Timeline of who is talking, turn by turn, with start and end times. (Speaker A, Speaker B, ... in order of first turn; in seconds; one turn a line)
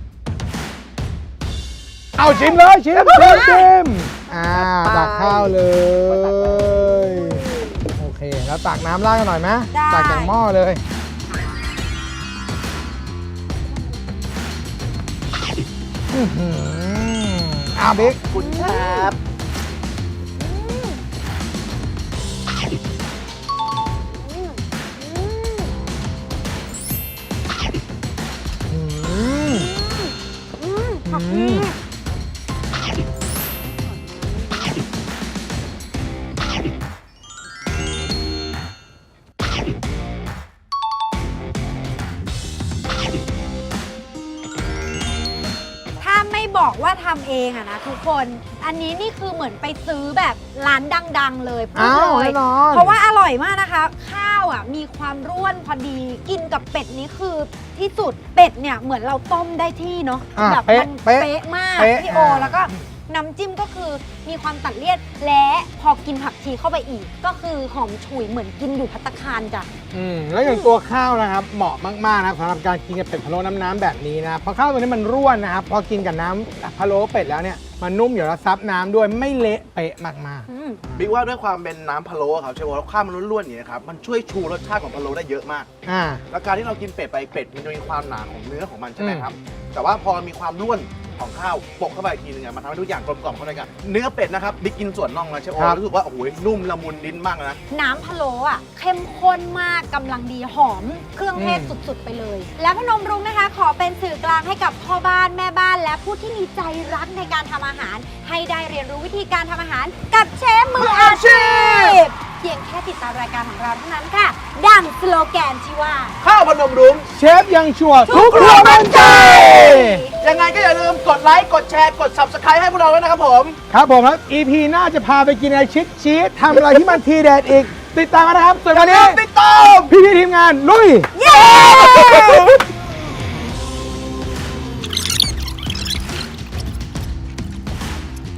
Speaker A: 2.2-10.8
Speaker B: 2.5-3.7
Speaker B: 4.3-5.5
Speaker B: 9.7-10.4
Speaker A: 16.1-18.2
Speaker C: 18.0-19.2
Speaker B: 18.3-19.1
Speaker B: 20.4-21.0
Speaker B: 24.2-25.7
Speaker A: 28.7-29.7
Speaker B: 29.5-31.8
Speaker A: 31.1-31.7
Speaker B: 46.0-69.7
Speaker A: 51.8-53.0
Speaker A: 60.4-62.8
Speaker A: 69.9-80.5
Speaker B: 70.4-70.7
Speaker B: 80.5-80.8
Speaker C: 81.0-85.7
Speaker A: 85.8-86.2
Speaker C: 86.3-97.6
Speaker A: 89.0-89.3
Speaker A: 95.6-95.8
Speaker B: 97.7-116.2
Speaker A: 101.3-101.8
Speaker C: 110.8-112.0
Speaker C: 116.2-117.1
Speaker A: 117.1-120.1
Speaker B: 118.0-120.1
Speaker C: 120.2-123.6
Speaker A: 123.7-129.2
Speaker C: 128.7-129.9
Speaker A: 129.9-131.1
Speaker B: 131.1-132.6
Speaker C: 131.3-132.5